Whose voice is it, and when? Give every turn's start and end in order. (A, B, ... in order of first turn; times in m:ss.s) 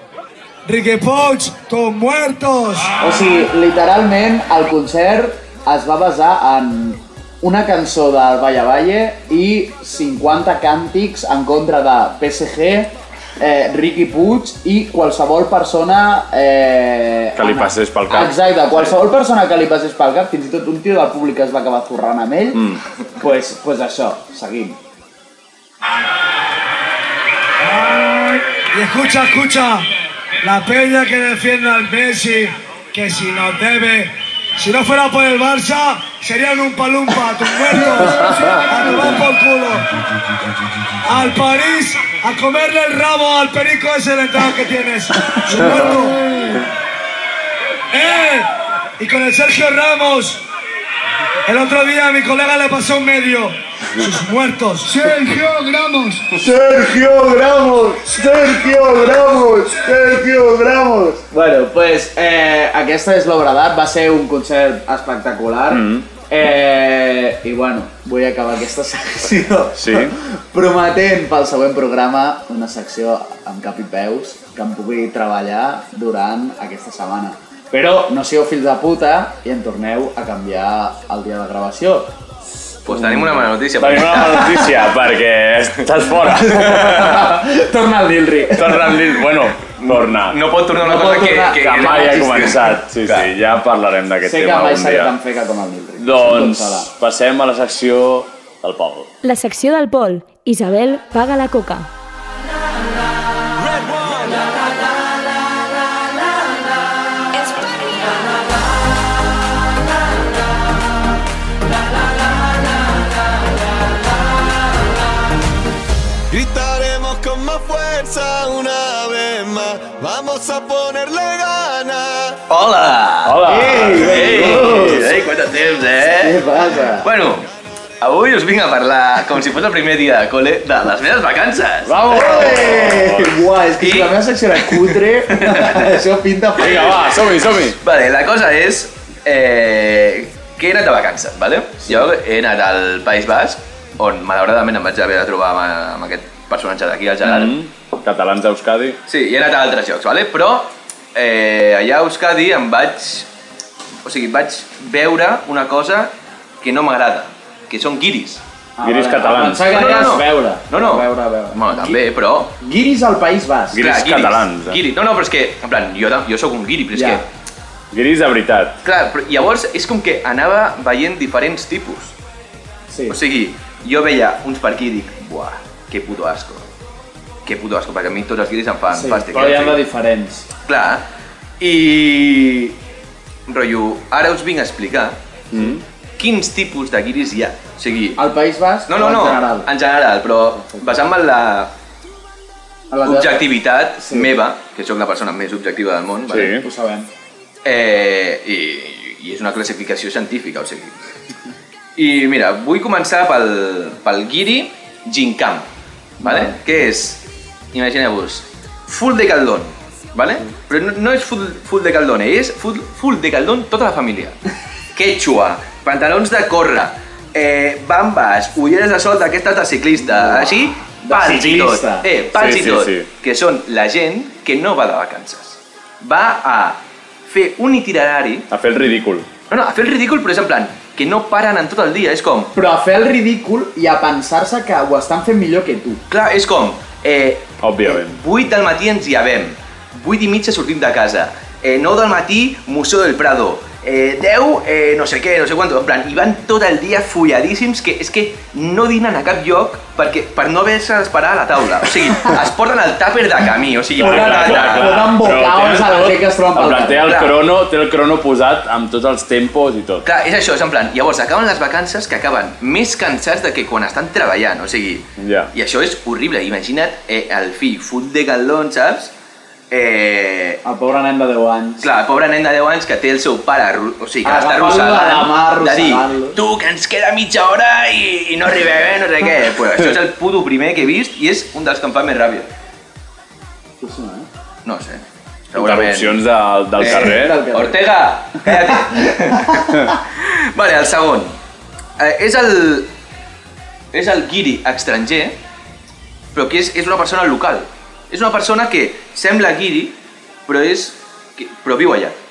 0:00.6-0:03.0 A
0:03.0-0:22.6 B
0:17.4-0:18.4 C
0:23.2-0:24.8 B
0:27.6-0:29.8 A
0:30.4-0:39.9 A
0:38.3-0:38.6 C
0:41.0-0:46.3 A
0:47.9-0:50.4 A
0:51.4-0:56.3 A
0:56.3-1:22.1 B
1:05.7-1:06.0 C
1:09.8-1:10.1 C
1:22.8-1:24.6 D
1:22.9-1:27.2 C
1:26.3-1:29.2 B
1:28.5-1:30.4 C
1:29.8-1:33.3 D
1:30.8-1:32.6 B
1:31.6-1:35.1 C
1:34.2-1:36.9 B
1:36.0-1:39.1 C
1:39.2-1:41.9 E
1:43.7-1:44.3 D
2:02.5-2:06.4 D
2:03.2-2:05.0 C
2:03.4-2:05.1 B
2:06.2-2:07.1 B
2:07.0-2:07.4 D
2:08.0-2:13.0 D
2:11.8-2:13.3 C
2:12.1-2:17.0 B
2:13.8-2:15.9 D
2:16.6-2:17.8 C
2:16.7-2:17.0 D
2:17.8-2:27.6 D
2:27.2-2:29.0 C
2:29.1-2:33.3 D
2:34.0-2:38.4 D
2:38.8-2:42.0 B
2:38.8-2:39.8 C
2:39.7-2:42.5 D
2:42.6-2:43.8 B
2:43.7-2:44.8 C
2:43.7-2:47.3 D
2:46.9-2:47.2 B
2:47.9-2:48.8 C
2:48.8-2:52.1 D
2:52.9-2:53.2 B
2:53.1-2:56.6 D
2:57.4-2:59.8 D
2:58.9-3:00.4 B
3:00.7-3:01.0 D
3:01.6-3:02.8 D
3:03.5-3:05.2 D
3:05.5-3:05.8 C
3:06.2-3:08.2 D
3:08.2-3:09.7 B
3:08.9-3:11.7 D
3:10.6-3:10.9 B
3:12.9-3:13.4 B
3:13.0-3:16.6 D
3:14.0-3:14.3 B
3:16.3-3:16.6 C
3:16.6-3:17.1 B
3:17.6-3:20.9 D
3:22.0-3:25.7 D
3:26.2-3:26.6 B
3:26.2-3:27.2 D
3:27.7-3:34.4 D
3:34.9-3:48.4 D
3:40.2-3:40.5 B
3:41.0-3:42.0 B
3:42.3-3:43.0 C
3:48.5-3:49.3 C
3:49.5-3:52.5 D
3:52.5-3:56.0 B
3:56.1-4:15.1 D
3:57.6-3:58.2 C
4:14.0-4:20.0 C
4:14.0-4:17.1 B
4:17.0-4:17.4 D
4:20.0-4:29.1 D
4:25.2-4:25.5 C
4:29.7-4:30.6 D
4:30.6-4:31.8 B
4:31.8-4:42.5 D
4:34.2-4:36.4 B
4:43.8-4:44.3 B
4:44.6-4:46.2 D
4:45.5-4:47.4 C
4:46.8-4:47.8 B
4:46.8-4:51.4 D
4:52.0-4:52.9 D
4:53.9-4:55.3 D
4:56.3-4:59.9 D
5:00.5-5:02.2 D